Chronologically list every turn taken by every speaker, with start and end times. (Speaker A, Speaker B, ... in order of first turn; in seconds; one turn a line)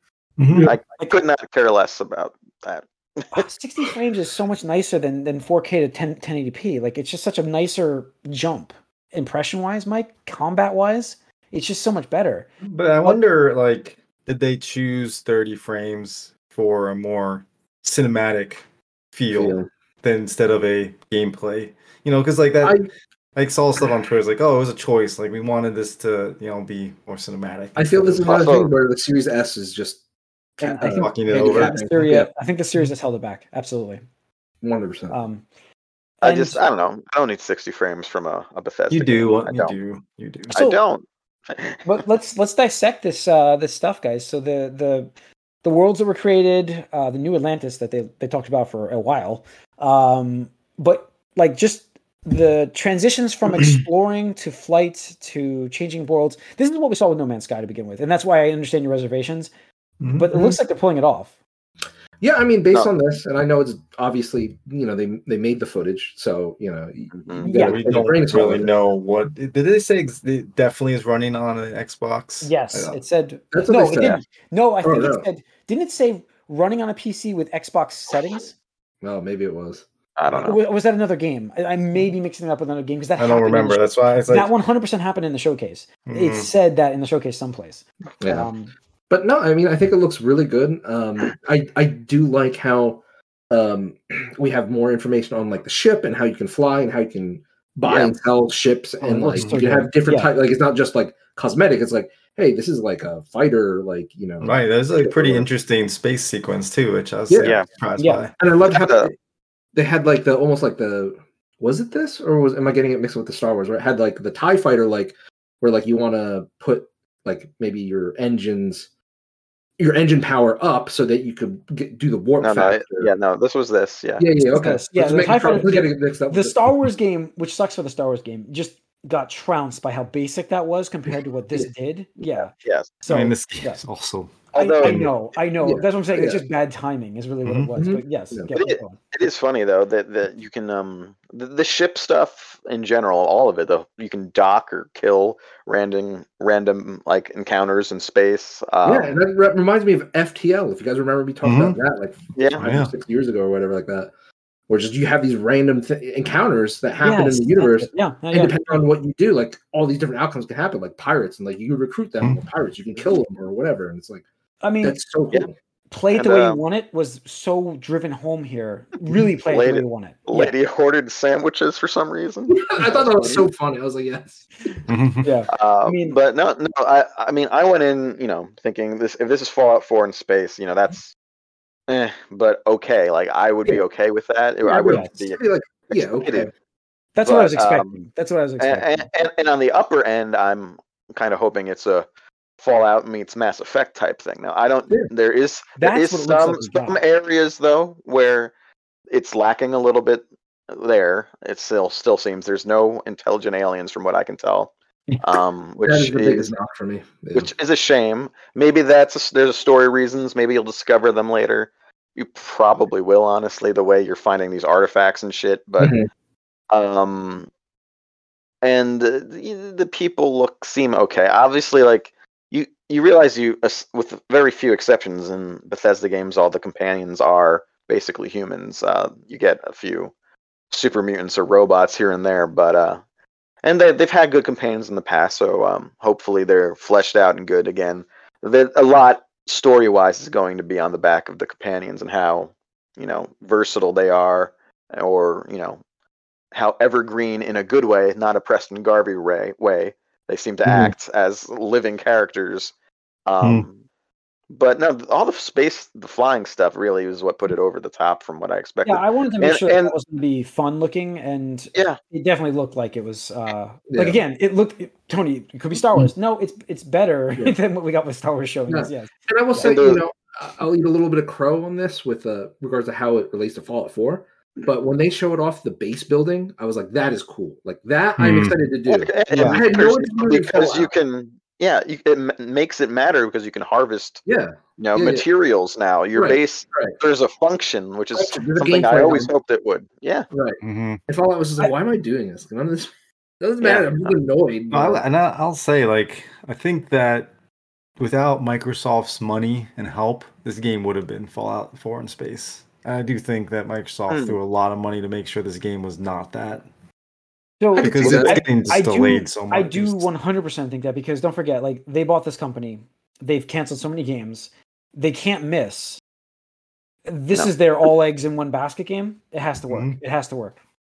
Speaker A: 0.4-0.7
Speaker B: 0.5-0.8
Speaker C: 0.7-3.4
Speaker D: 3.3-12.5
Speaker A: 12.6-22.8
Speaker B: 19.3-19.7
Speaker B: 22.6-22.9
Speaker A: 23.4-28.4
Speaker B: 27.8-30.0
Speaker C: 28.2-28.7
Speaker B: 30.6-32.3
Speaker D: 30.6-34.0
Speaker A: 30.9-31.8
Speaker B: 34.6-35.2
Speaker D: 35.1-35.4
Speaker D: 36.2-36.6
Speaker C: 36.2-39.7
Speaker A: 38.9-40.5
Speaker C: 40.5-41.8
Speaker D: 41.8-45.1
Speaker D: 45.6-59.5
Speaker A: 60.0-60.3
Speaker D: 60.1-61.3
Speaker B: 62.2-68.7
Speaker C: 67.1-67.5
Speaker D: 67.4-67.9
Speaker A: 67.5-73.0
Speaker D: 72.4-78.5
Speaker B: 73.5-74.2
Speaker B: 74.8-75.3
Speaker B: 79.0-79.8
Speaker C: 80.2-80.6
Speaker D: 80.3-88.7
Speaker A: 83.2-84.5
Speaker A: 86.1-86.5
Speaker B: 88.2-88.5
Speaker B: 89.1-105.5
Speaker C: 97.8-98.1
Speaker D: 99.0-100.3
Speaker A: 99.3-99.6
Speaker A: 104.4-108.3
Speaker B: 107.3-107.5
Speaker C: 107.4-107.7
Speaker D: 108.0-108.3
Speaker B: 108.4-109.1
Speaker C: 108.7-109.1
Speaker B: 109.7-118.9
Speaker B: 119.8-123.1
Speaker C: 122.4-124.3
Speaker B: 124.2-126.6
Speaker D: 124.5-133.8
Speaker C: 132.4-132.9
Speaker A: 133.1-135.1
Speaker C: 134.5-135.1
Speaker D: 134.5-139.0
Speaker B: 135.6-136.4
Speaker A: 137.4-137.7
Speaker B: 137.8-138.5
Speaker C: 138.5-149.2
Speaker B: 148.8-154.1
Speaker A: 151.4-151.8
Speaker C: 152.4-152.6
Speaker A: 152.6-152.9
Speaker B: 154.7-164.2
Speaker D: 157.0-158.8
Speaker D: 164.6-165.0
Speaker B: 164.8-165.5
Speaker D: 165.9-170.6
Speaker C: 166.1-166.6
Speaker C: 169.5-173.4
Speaker B: 172.5-174.5
Speaker A: 174.9-175.3
Speaker D: 175.2-176.2
Speaker C: 175.5-181.1
Speaker C: 181.9-186.5
Speaker B: 184.6-186.5
Speaker D: 184.9-185.1
Speaker D: 187.2-189.1
Speaker C: 187.2-188.0
Speaker C: 188.6-192.1
Speaker C: 192.6-198.5
Speaker D: 195.8-197.0
Speaker C: 199.1-206.5
Speaker B: 205.8-207.5
Speaker C: 207.3-215.9
Speaker B: 215.8-216.1
Speaker C: 216.7-217.5
Speaker C: 218.6-230.1
Speaker C: 230.7-233.0
Speaker C: 233.6-245.8
Speaker C: 246.5-252.7
Speaker A: 250.7-250.9
Speaker C: 253.3-253.8
Speaker C: 254.5-259.9
Speaker D: 258.9-269.7
Speaker B: 263.9-264.2
Speaker B: 268.7-280.9
Speaker C: 269.6-270.0
Speaker A: 278.2-278.6
Speaker C: 278.9-284.2
Speaker A: 279.3-279.6
Speaker B: 284.3-285.2
Speaker C: 284.8-290.3
Speaker B: 286.1-287.0
Speaker B: 288.1-289.3
Speaker B: 290.3-295.0
Speaker A: 290.6-291.0
Speaker C: 293.6-294.2
Speaker A: 294.7-297.3
Speaker A: 298.0-306.7
Speaker C: 304.1-304.4
Speaker D: 307.6-316.0
Speaker B: 307.8-308.4
Speaker A: 307.8-310.1
Speaker C: 308.0-308.3
Speaker D: 317.1-320.6
Speaker A: 319.7-320.0